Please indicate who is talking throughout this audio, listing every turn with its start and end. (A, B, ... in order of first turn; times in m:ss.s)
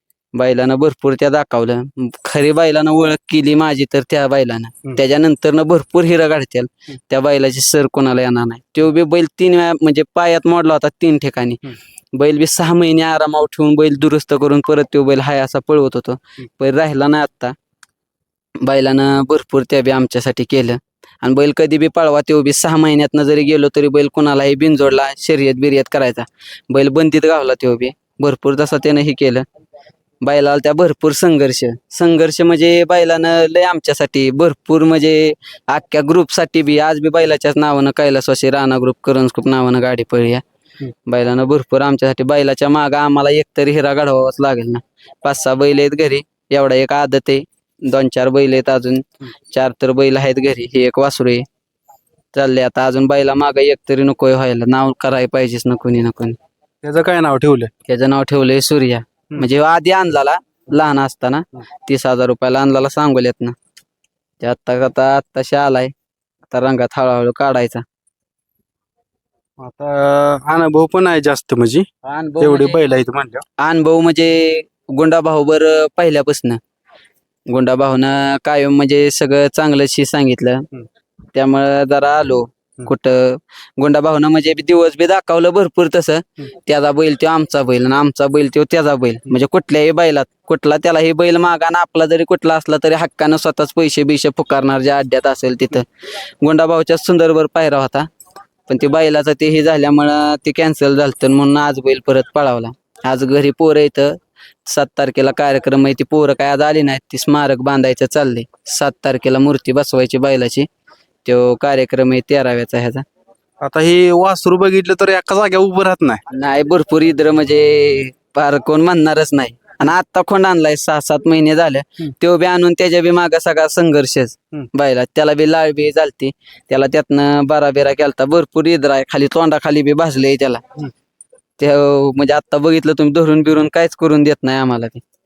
0:00.4-0:17.6 A
0:18.6-0:29.4 A
0:30.2-0:40.4 A
0:41.1-0:51.4 A
0:52.3-0:56.4 A
0:56.8-0:57.7 B
0:57.9-1:03.6 A
1:04.4-1:05.9 A
1:06.5-1:07.8 A
1:09.6-1:11.9 B
1:12.0-1:12.8 A
1:12.4-1:13.4 B
1:13.6-1:16.6 A
1:17.5-1:20.7 A
1:21.3-1:35.9 A
1:36.4-1:38.1 A
1:38.7-1:50.7 A
1:51.2-1:53.0 A
1:53.6-1:56.2 B
1:56.3-2:10.6 A
2:11.6-2:15.0 A